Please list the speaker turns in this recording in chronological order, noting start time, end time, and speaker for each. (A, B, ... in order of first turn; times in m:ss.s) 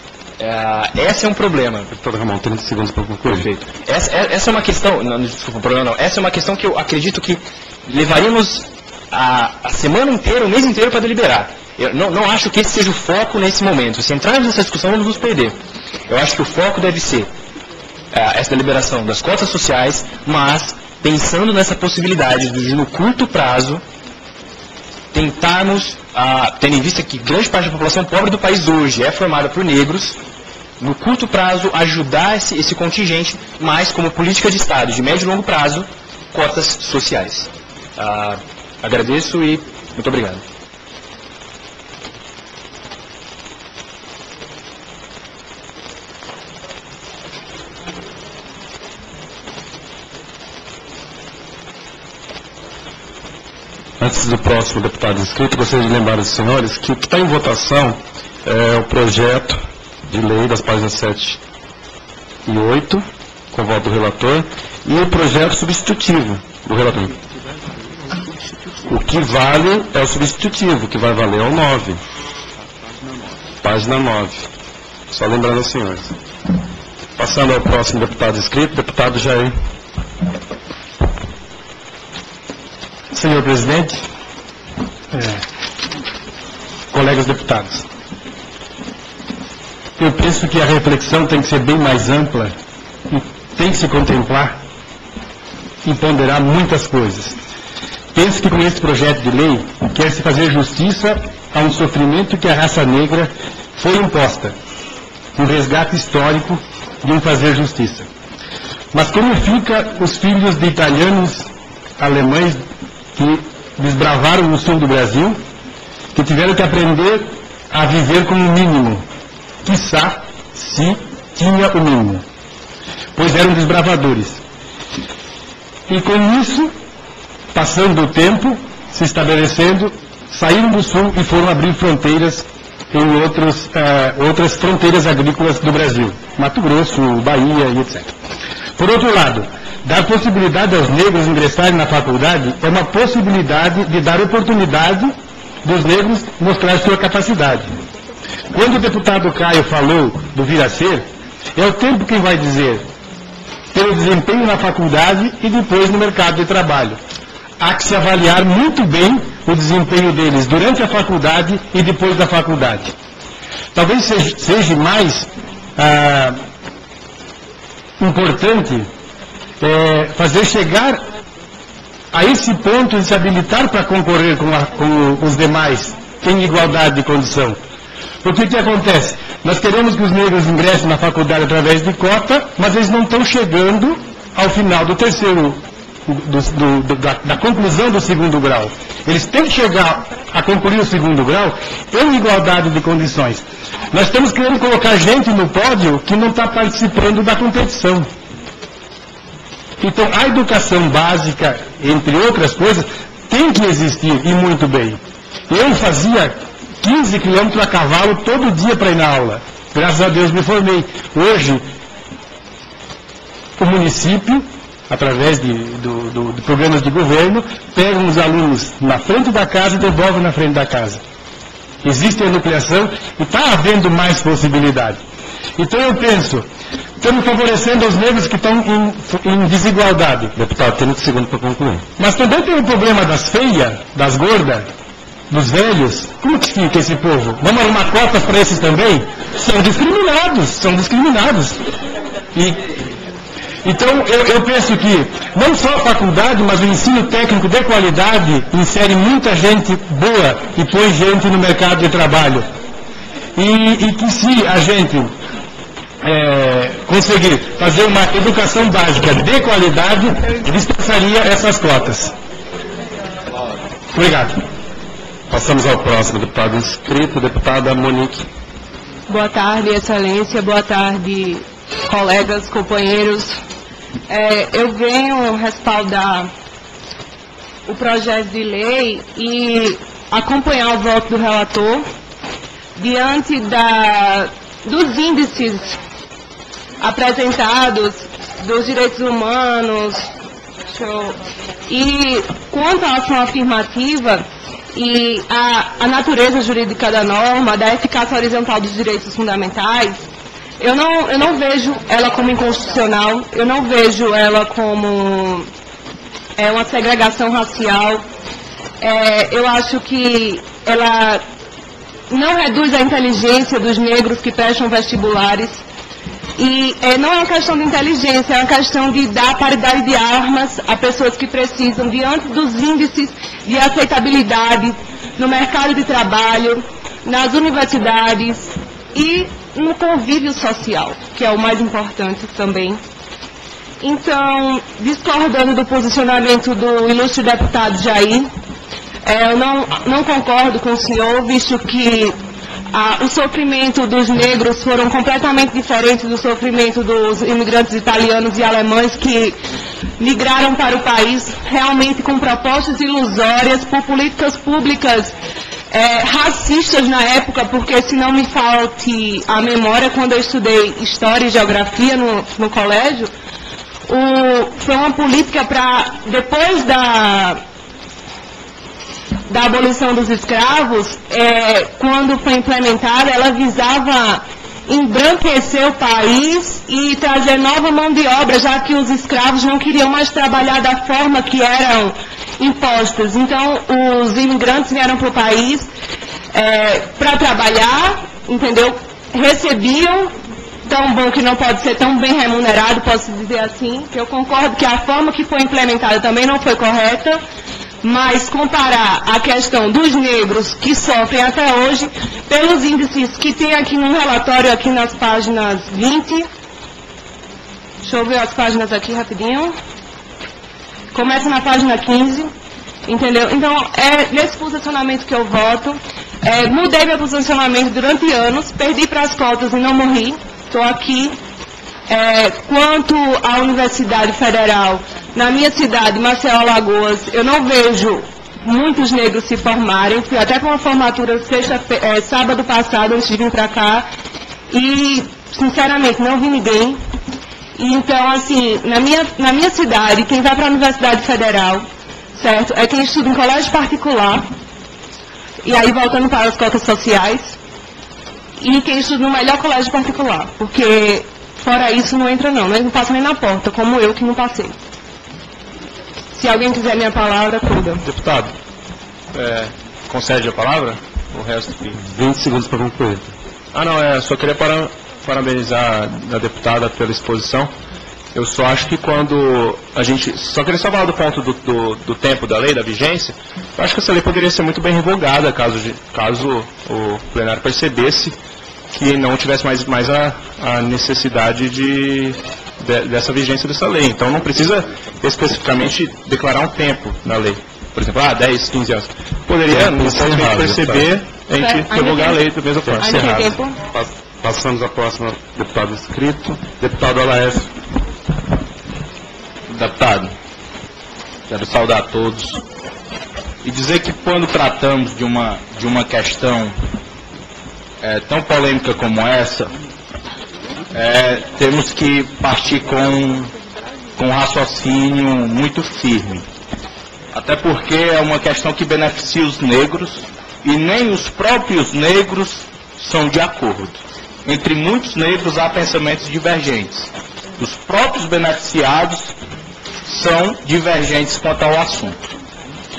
0:00.4-0:01.9 A
0:01.9-0:03.5 B
0:03.3-0:15.6 A
0:16.1-0:17.3 A
0:18.1-0:23.8 A
0:25.1-0:30.2 A
0:30.8-0:40.4 A
0:54.0-1:01.4 B
1:02.5-1:07.2 B
1:08.1-1:08.5 C
1:08.9-1:12.0 B
1:13.6-1:14.5 B
1:15.1-1:16.2 B
1:17.2-1:19.6 B
1:23.1-1:24.0 D
1:25.1-1:25.4 D
1:26.9-1:27.8 D
1:30.0-1:32.6 D
1:33.1-1:34.6 D
1:35.8-1:37.4 D
1:38.1-1:44.6 D
1:45.4-1:48.1 D
1:48.9-1:52.6 D
1:53.2-1:55.4 D
1:56.2-1:59.1 D
1:59.6-2:02.2 D
2:03.2-2:04.4 D
2:05.9-2:06.7 D
2:07.5-2:18.1 D
2:18.8-2:27.8 D
2:28.5-2:32.9 D
2:33.7-2:37.0 D
2:37.6-2:42.9 D
2:43.8-2:46.4 D
2:48.0-2:48.9 D
2:49.6-2:51.0 D
2:52.1-2:57.6 D
2:58.2-3:18.1 D
3:19.8-3:31.7 D
3:33.6-3:41.0 D
3:41.8-3:45.0 D
3:45.6-3:46.5 D
3:47.0-3:50.3 D
3:50.4-3:51.9 B
3:52.0-3:54.7 D
3:55.3-4:01.6 D
4:02.4-4:02.6 D
4:03.6-4:12.5 D
4:13.4-4:15.2 D
4:16.0-4:22.1 D
4:23.9-4:24.4 D
4:25.3-4:28.2 B
4:29.1-4:33.4 E
4:34.1-4:36.3 E
4:37.7-4:41.9 E
4:42.8-4:45.8 E
4:46.8-4:50.1 E
4:50.7-5:00.0 E
5:00.6-5:05.5 E
5:06.4-5:08.0 E
5:08.8-5:11.2 E
5:12.1-5:15.6 E
5:16.4-5:32.8 E
5:33.8-5:38.3 E
5:39.0-5:42.2 E
5:42.7-5:49.4 E
5:50.0-5:55.2 E
5:55.7-6:03.1 E
6:03.9-6:07.4 E
6:09.3-6:25.7 E
6:26.3-6:30.2 E
6:30.7-6:37.2 E
6:37.8-6:46.3 E
6:47.8-6:49.6 E
6:50.9-6:52.3 E
6:52.9-7:01.2 E
7:01.9-7:13.9 E
7:14.5-7:16.8 E
7:17.6-7:24.3 E
7:25.4-7:27.4 E
7:28.4-7:34.6 E
7:36.1-7:37.8 E
7:37.8-7:38.4 F
7:39.1-7:41.8 F
7:41.8-7:43.1 B
7:43.5-7:47.5 F
7:48.1-7:58.2 F
7:58.7-8:13.4 F
8:09.5-8:10.9 B
8:11.4-8:12.2 E
8:12.7-8:17.5 B
8:12.8-8:13.6 E
8:19.5-8:20.1 C
8:21.3-8:22.3 C
8:23.4-8:26.5 C
8:27.8-8:29.4 C
8:30.8-8:33.3 C
8:34.0-8:36.2 C
8:37.1-8:49.1 C
8:49.9-8:52.0 C